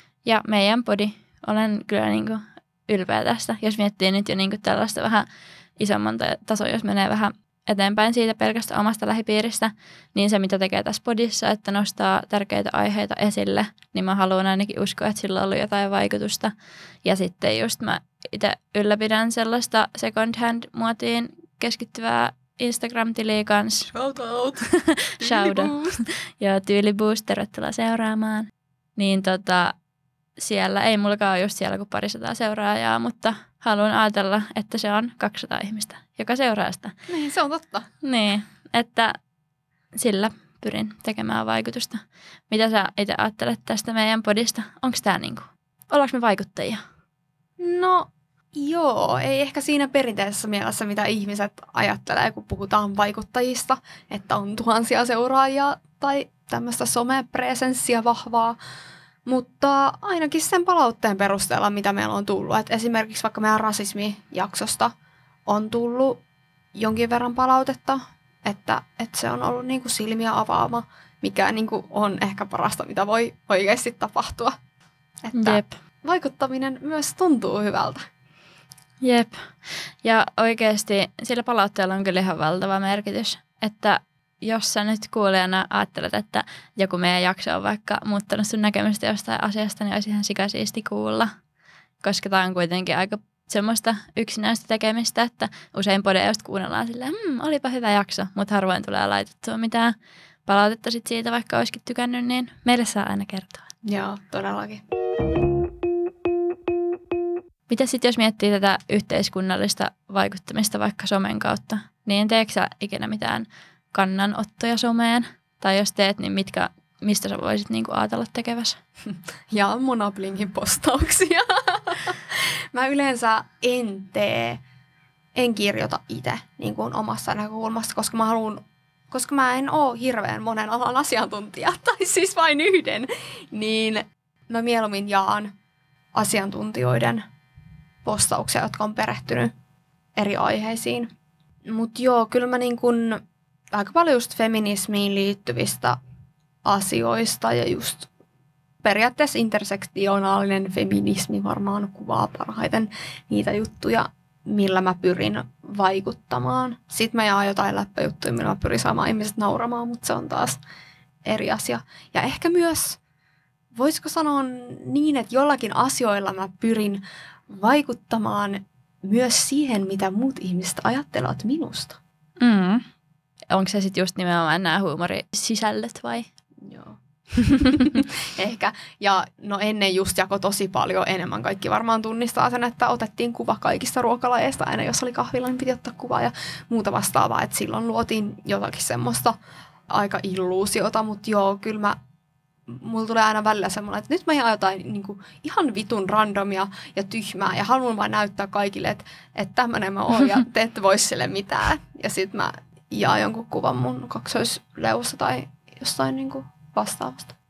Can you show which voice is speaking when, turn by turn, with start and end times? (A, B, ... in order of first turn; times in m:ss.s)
0:00.2-0:05.2 A
0:05.8-0:16.5 A
0:17.0-0:23.9 A
0:23.9-0:24.6 B
0:24.7-0:29.7 A
0:25.2-0:25.9 B
0:30.4-0:37.0 A
0:37.1-0:37.9 B
0:38.0-0:39.1 A
0:40.0-0:46.8 A
0:47.6-0:58.6 B
0:59.2-1:04.9 B
1:05.5-1:06.2 B
1:06.7-1:14.6 B
1:15.2-1:18.1 B
1:15.4-1:15.7 A
1:19.0-1:19.5 A
1:20.0-1:31.3 A
1:32.0-1:39.9 A
1:40.4-1:43.7 A
1:43.8-1:44.8 B
1:47.7-1:58.8 A
1:59.5-2:04.6 B
2:05.4-2:15.5 B
2:16.1-2:17.2 B
2:18.0-2:19.5 B
2:20.2-2:21.1 B
2:21.7-2:26.0 B
2:26.6-2:28.1 B
2:28.8-2:40.6 B
2:41.2-2:43.0 B
2:43.7-2:52.0 B
2:52.4-2:52.8 A
2:53.5-2:56.3 A
2:56.6-2:57.0 B
2:57.4-2:58.0 A
2:57.7-3:09.4 B
3:09.9-3:12.0 B
3:12.7-3:27.3 B